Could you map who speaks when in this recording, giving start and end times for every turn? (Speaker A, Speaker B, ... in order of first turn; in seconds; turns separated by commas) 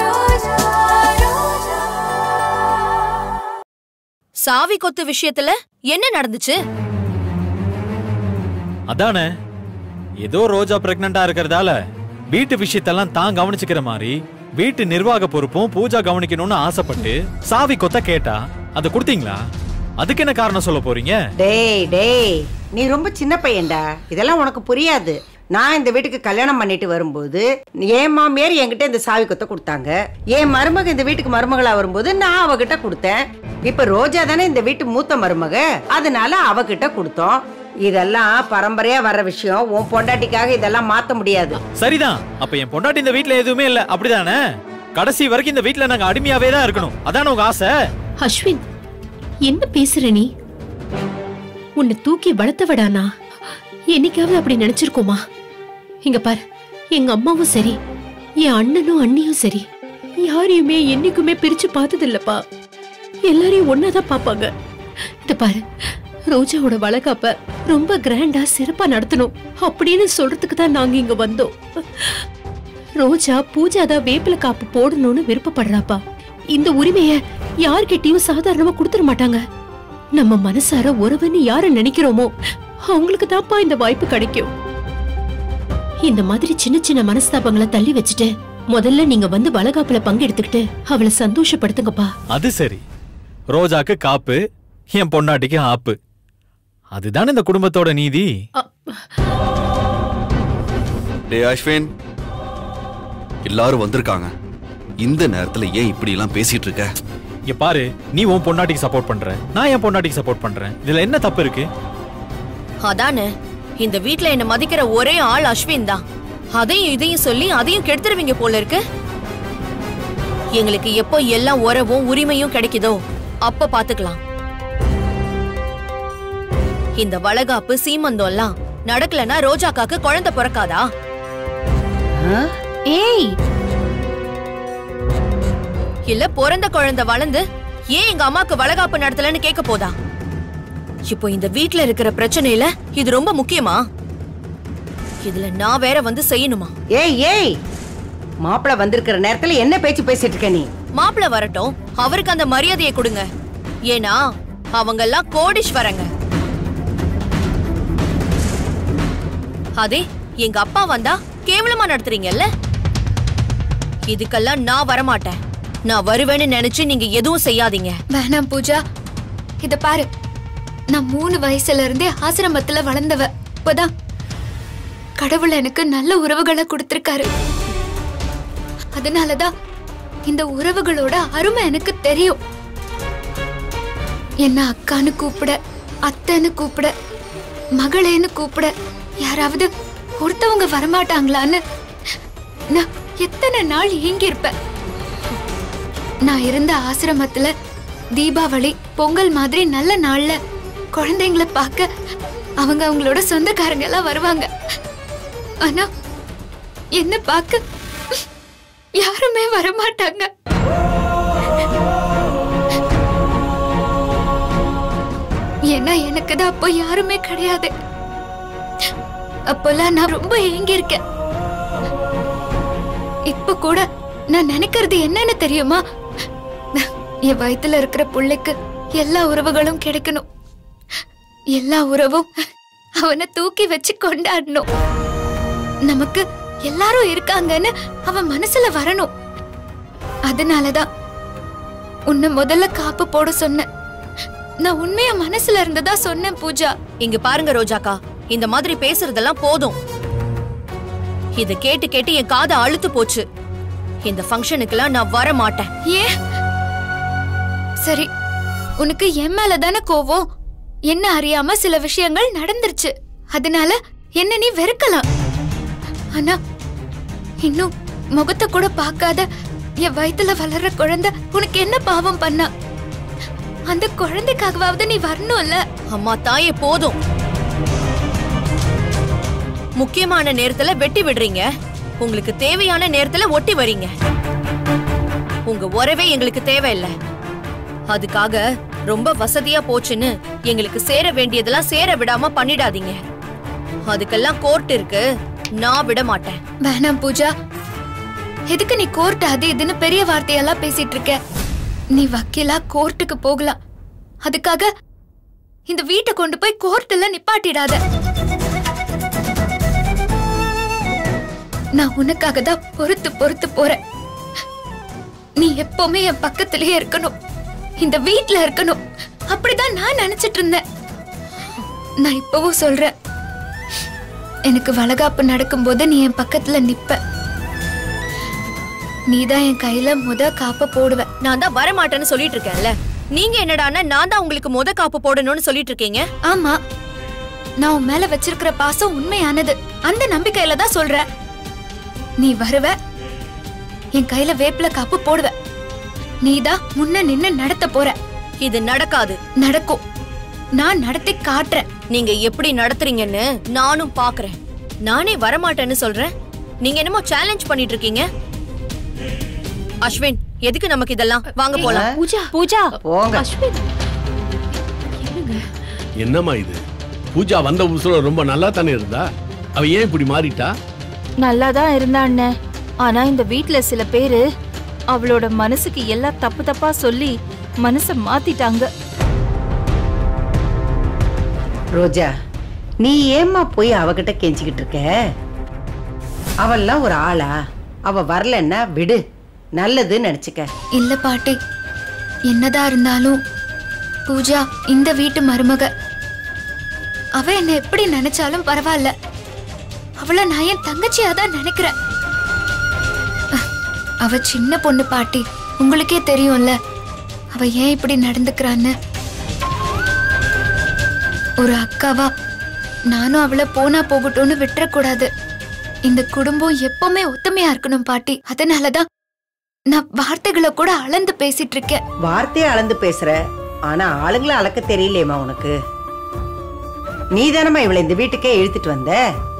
Speaker A: 4.4-6.6, Speaker B: 8.9-9.3, Speaker B: 10.2-11.8, Speaker B: 12.3-19.4, Speaker B: 20.0-21.2, Speaker C: 21.4-41.6, Speaker B: 41.8-44.4, Speaker B: 45.0-47.7, Speaker D: 48.2-48.6, Speaker D: 49.5-50.3, Speaker D: 51.8-53.1, Speaker D: 53.9-55.2, Speaker D: 56.0-56.4, Speaker D: 57.0-57.8, Speaker D: 58.4-59.6, Speaker D: 60.2-62.4, Speaker D: 63.3-64.5, Speaker D: 65.2-72.3, Speaker D: 73.0-76.0, Speaker D: 76.5-79.4, Speaker D: 80.2-82.3, Speaker D: 82.9-84.5, Speaker D: 86.1-92.1, Speaker B: 92.3-92.8, Speaker B: 93.5-94.4, Speaker B: 94.9-96.0, Speaker B: 97.0-98.3, Speaker D: 98.6-99.0, Speaker E: 101.3-101.9, Speaker E: 103.5-104.3, Speaker E: 105.0-106.8, Speaker B: 107.5-111.7, Speaker A: 112.8-116.0, Speaker A: 116.5-118.8, Speaker A: 120.6-124.2, Speaker A: 127.0-130.8, Speaker C: 132.2-132.5, Speaker D: 132.9-133.3, Speaker A: 136.1-139.9, Speaker A: 141.1-143.8, Speaker A: 145.2-146.7, Speaker C: 147.0-147.5, Speaker C: 148.5-150.7, Speaker A: 151.0-153.2, Speaker A: 153.9-154.2, Speaker A: 154.8-156.1, Speaker A: 159.8-162.4, Speaker A: 164.1-165.4, Speaker A: 165.9-168.0, Speaker F: 168.2-168.8, Speaker F: 169.6-170.1, Speaker F: 170.9-173.9, Speaker F: 175.2-177.3, Speaker F: 179.0-179.5, Speaker F: 180.3-182.4, Speaker F: 184.4-185.6, Speaker F: 186.1-186.9, Speaker F: 187.8-188.7, Speaker F: 189.2-189.7, Speaker F: 190.2-191.6, Speaker F: 192.7-194.5, Speaker F: 196.3-197.5, Speaker F: 198.2-200.3, Speaker F: 200.9-201.9, Speaker F: 202.6-204.5, Speaker F: 207.0-207.6, Speaker F: 209.0-210.3, Speaker F: 215.7-217.7, Speaker F: 219.5-221.0, Speaker F: 223.3-225.8, Speaker F: 226.8-230.2, Speaker F: 231.6-232.4, Speaker F: 233.0-234.7, Speaker F: 235.9-239.1, Speaker F: 240.3-240.9, Speaker F: 242.1-243.7, Speaker F: 244.7-246.7, Speaker A: 247.0-249.8, Speaker A: 251.4-253.2, Speaker A: 254.1-255.7, Speaker F: 258.8-260.2, Speaker F: 260.9-265.1, Speaker F: 267.4-269.2, Speaker F: 269.9-272.5, Speaker F: 273.7-275.6, Speaker A: 275.9-276.9, Speaker A: 279.8-281.5, Speaker A: 282.0-283.9, Speaker A: 285.5-286.9, Speaker A: 287.9-293.0, Speaker A: 293.9-295.0, Speaker A: 295.6-296.4, Speaker F: 296.6-297.3, Speaker F: 298.5-301.1, Speaker F: 301.9-303.6, Speaker F: 304.2-304.7, Speaker F: 305.7-307.8, Speaker F: 311.8-313.8, Speaker F: 315.4-317.1, Speaker F: 317.8-318.8, Speaker F: 319.3-320.6, Speaker F: 322.1-322.9, Speaker F: 324.5-327.0, Speaker F: 329.1-331.1, Speaker A: 331.2-336.0, Speaker F: 336.3-336.6, Speaker F: 337.6-341.1, Speaker F: 342.2-342.7, Speaker F: 344.0-345.3, Speaker F: 346.2-348.0, Speaker A: 348.4-349.2, Speaker F: 349.4-349.8, Speaker F: 350.6-351.6, Speaker A: 351.9-356.1, Speaker A: 356.6-358.1, Speaker A: 359.9-361.8, Speaker D: 361.5-362.4, Speaker C: 361.6-362.0, Speaker G: 362.3-362.7, Speaker C: 362.8-363.2, Speaker D: 363.1-363.6, Speaker D: 365.0-365.4, Speaker H: 366.0-366.6, Speaker H: 367.1-370.5, Speaker G: 371.2-372.3, Speaker G: 372.8-374.2, Speaker G: 374.9-378.7, Speaker C: 381.8-382.1, Speaker C: 382.8-384.9, Speaker C: 386.4-387.3, Speaker C: 387.9-389.0, Speaker C: 389.6-390.5, Speaker F: 390.8-391.4, Speaker F: 392.3-393.2, Speaker F: 394.1-395.7, Speaker F: 397.2-398.9, Speaker F: 400.0-401.7, Speaker F: 404.1-406.5, Speaker F: 407.4-408.7, Speaker F: 411.4-412.1, Speaker F: 412.9-415.1, Speaker F: 415.9-418.9, Speaker F: 419.7-421.8, Speaker C: 422.1-423.2, Speaker C: 423.7-425.5, Speaker C: 427.2-429.0